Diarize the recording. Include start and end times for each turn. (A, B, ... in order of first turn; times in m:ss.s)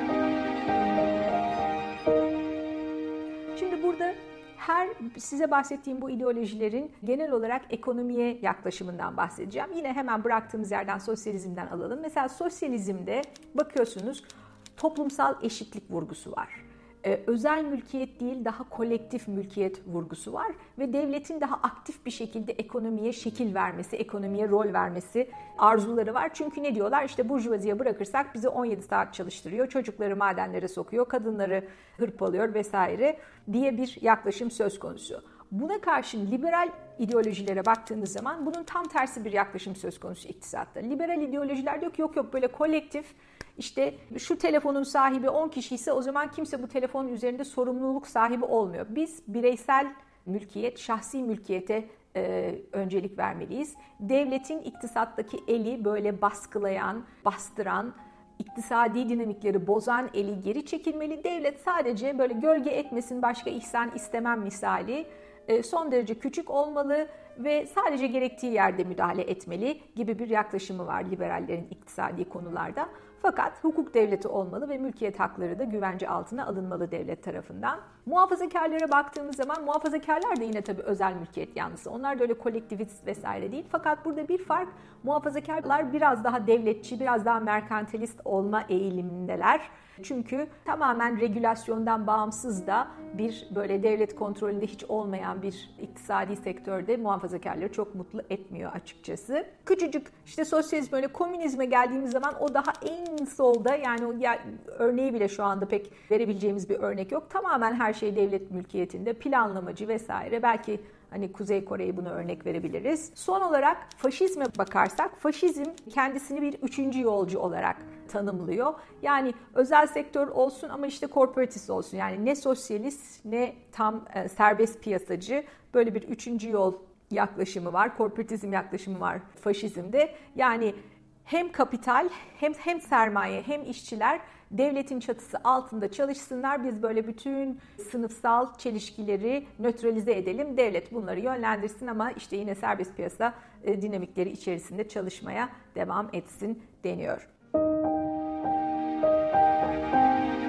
0:03.6-2:27.3 A